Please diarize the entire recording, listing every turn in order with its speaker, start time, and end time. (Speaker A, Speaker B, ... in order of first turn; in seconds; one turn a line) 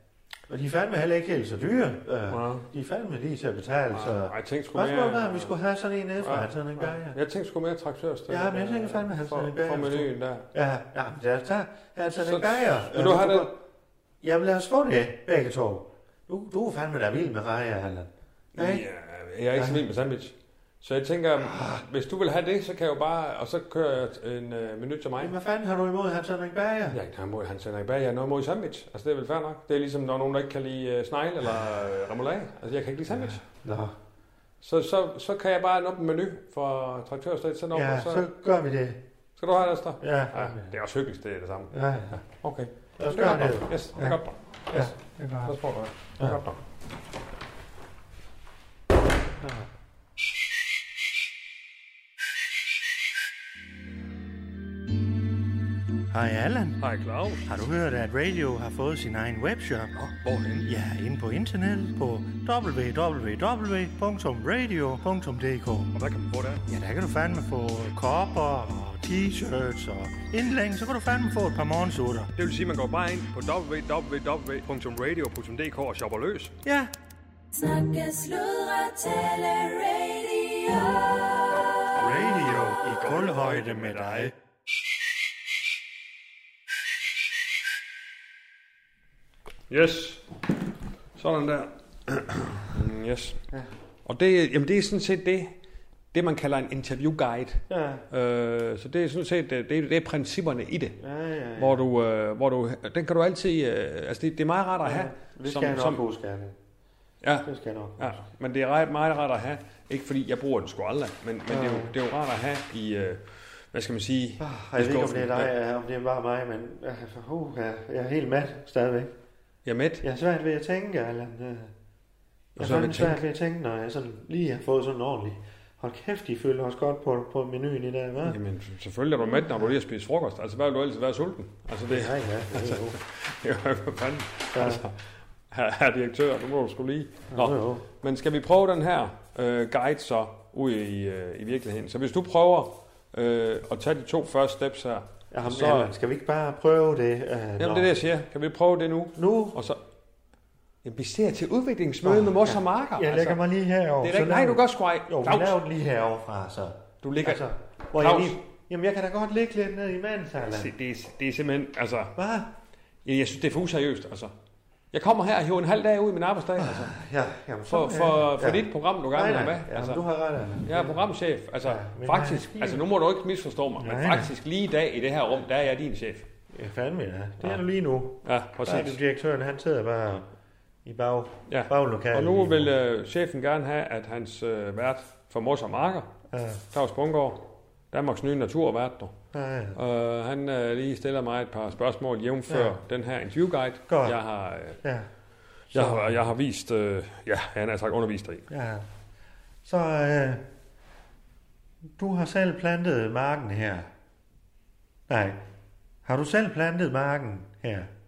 Speaker A: 0.5-7.2
Speaker B: 2.3-2.6
Speaker B: 3.9-5.5
Speaker B: 6.2-10.4
Speaker A: 8.3-13.5
Speaker B: 12.2-13.5
Speaker A: 14.2-18.8
Speaker B: 18.6-25.3
Speaker A: 19.5-19.8
Speaker A: 21.4-21.8
Speaker A: 25.2-27.0
Speaker B: 26.9-33.5
Speaker A: 33.4-33.9
Speaker B: 34.6-38.3
Speaker A: 37.7-39.0
Speaker B: 39.4-46.6
Speaker A: 40.0-40.7
Speaker A: 41.7-42.2
Speaker A: 43.0-45.5
Speaker A: 49.4-49.7
Speaker A: 56.1-56.8
Speaker B: 56.8-57.5
Speaker A: 57.4-60.1
Speaker B: 60.0-60.7
Speaker A: 60.6-65.9
Speaker B: 65.9-66.6
Speaker A: 66.7-72.3
Speaker B: 72.3-76.5
Speaker A: 76.6-76.9
Speaker C: 77.5-81.8
Speaker B: 81.9-84.3
Speaker A: 81.9-84.3
Speaker B: 89.7-90.3
Speaker B: 91.2-93.4
Speaker B: 94.0-95.5
Speaker B: 96.1-101.0
Speaker A: 97.7-98.0
Speaker A: 101.0-101.8
Speaker B: 101.6-106.0
Speaker A: 104.8-106.5
Speaker B: 107.2-115.5
Speaker A: 107.4-108.2
Speaker A: 111.5-111.9
Speaker A: 114.4-119.1
Speaker B: 119.6-120.0
Speaker A: 120.0-121.7
Speaker B: 122.5-123.2
Speaker A: 122.6-128.4
Speaker B: 128.2-145.9
Speaker A: 129.3-129.7
Speaker A: 131.9-133.0
Speaker A: 134.5-134.9
Speaker A: 137.3-137.8
Speaker A: 145.3-147.9
Speaker B: 147.6-149.8
Speaker A: 149.2-149.6
Speaker B: 150.8-153.4
Speaker A: 152.0-160.7
Speaker B: 154.0-155.6
Speaker B: 157.0-158.4
Speaker B: 160.4-162.1
Speaker A: 162.2-162.5
Speaker B: 163.0-164.3
Speaker B: 164.9-166.9
Speaker A: 166.6-171.0
Speaker B: 167.7-170.0
Speaker B: 170.6-176.3
Speaker A: 171.6-172.8
Speaker A: 173.8-174.3
Speaker A: 176.5-180.3
Speaker B: 178.2-179.0
Speaker A: 180.8-182.7
Speaker B: 181.5-186.1
Speaker A: 186.3-186.6
Speaker B: 186.7-189.1
Speaker A: 189.3-189.8
Speaker B: 189.7-194.8
Speaker A: 192.5-192.8
Speaker A: 193.9-194.2
Speaker A: 194.8-195.1
Speaker A: 195.7-196.2
Speaker B: 195.7-198.5
Speaker A: 198.5-198.8
Speaker A: 199.6-200.4
Speaker A: 202.0-203.9
Speaker A: 205.1-205.4
Speaker A: 206.0-207.9